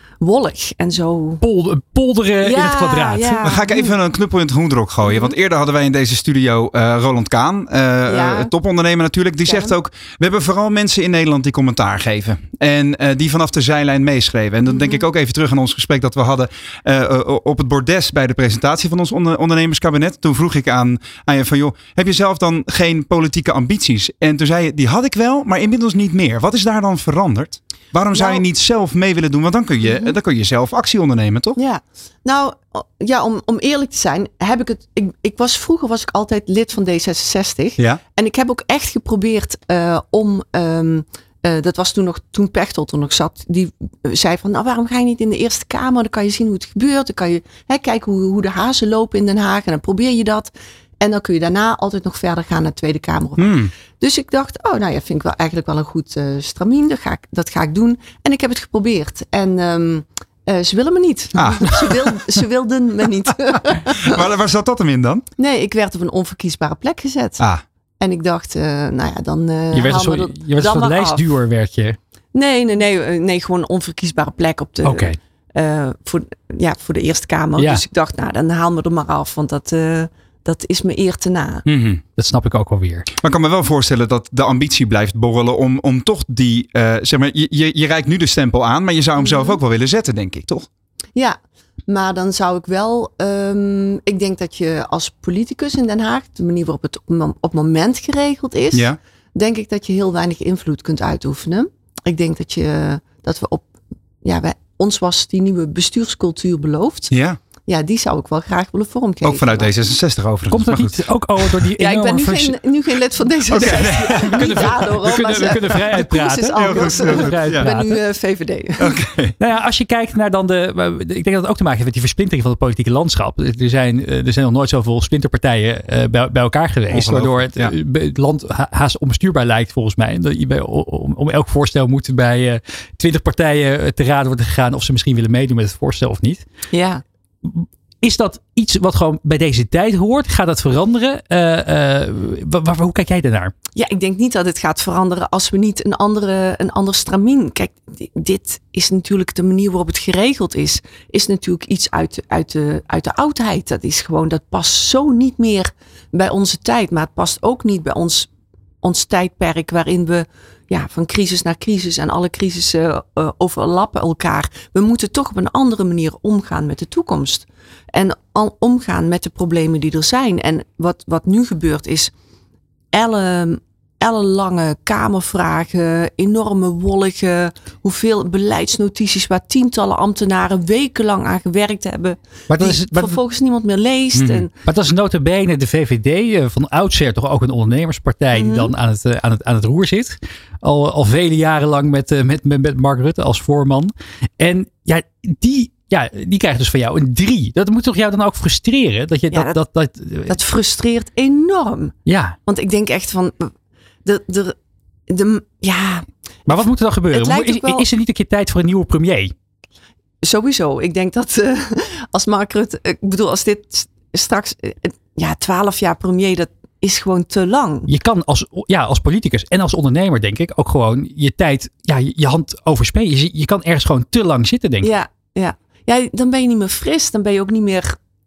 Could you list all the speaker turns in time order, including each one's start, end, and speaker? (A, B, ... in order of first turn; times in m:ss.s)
0:00.2-0:01.4 A
0:01.4-0:03.4 B
0:02.4-0:04.0 A
0:03.4-0:31.6 C
0:05.0-0:05.3 A
0:08.1-0:08.5 A
0:09.5-0:09.7 A
0:14.7-0:15.0 A
0:28.1-0:28.4 A
0:29.8-0:30.1 A
0:31.6-1:04.2 A
0:53.4-0:53.7 C
1:01.4-1:02.2 C
1:03.7-1:05.2 C
1:05.4-1:07.4 A
1:08.0-1:11.2 A
1:09.7-1:12.0 B
1:12.3-1:21.6 A
1:14.8-1:15.2 B
1:21.7-1:22.0 C
1:22.2-1:23.1 B
1:23.2-1:30.7 C
1:29.2-1:29.6 A
1:31.2-1:43.6 A
1:44.2-1:47.1 A
1:47.1-1:47.4 C
1:47.7-1:49.7 A
1:49.2-1:51.6 C
1:50.5-1:52.6 B
1:51.8-1:59.0 A
1:53.5-1:54.8 C
1:53.6-1:58.0 B
1:56.6-1:57.7 C
1:58.8-1:59.3 C
1:59.4-2:16.4 B
2:06.9-2:07.7 C
2:16.7-2:17.0 A
2:17.4-2:23.5 B
2:23.8-2:38.3 A
2:38.8-2:52.1 A
2:52.9-3:04.5 A
3:02.5-3:03.2 B
3:04.2-3:04.5 C
3:04.6-3:20.4 B
3:08.3-3:08.7 A
3:19.3-3:19.6 A
3:20.3-3:22.0 A
3:22.1-3:22.4 B
3:22.5-3:23.5 A
3:24.0-3:24.6 A
3:25.1-3:26.6 A
3:26.5-3:29.3 B
3:27.1-3:27.8 A
3:30.2-3:37.9 A
3:37.9-3:44.9 B
3:44.8-3:48.0 A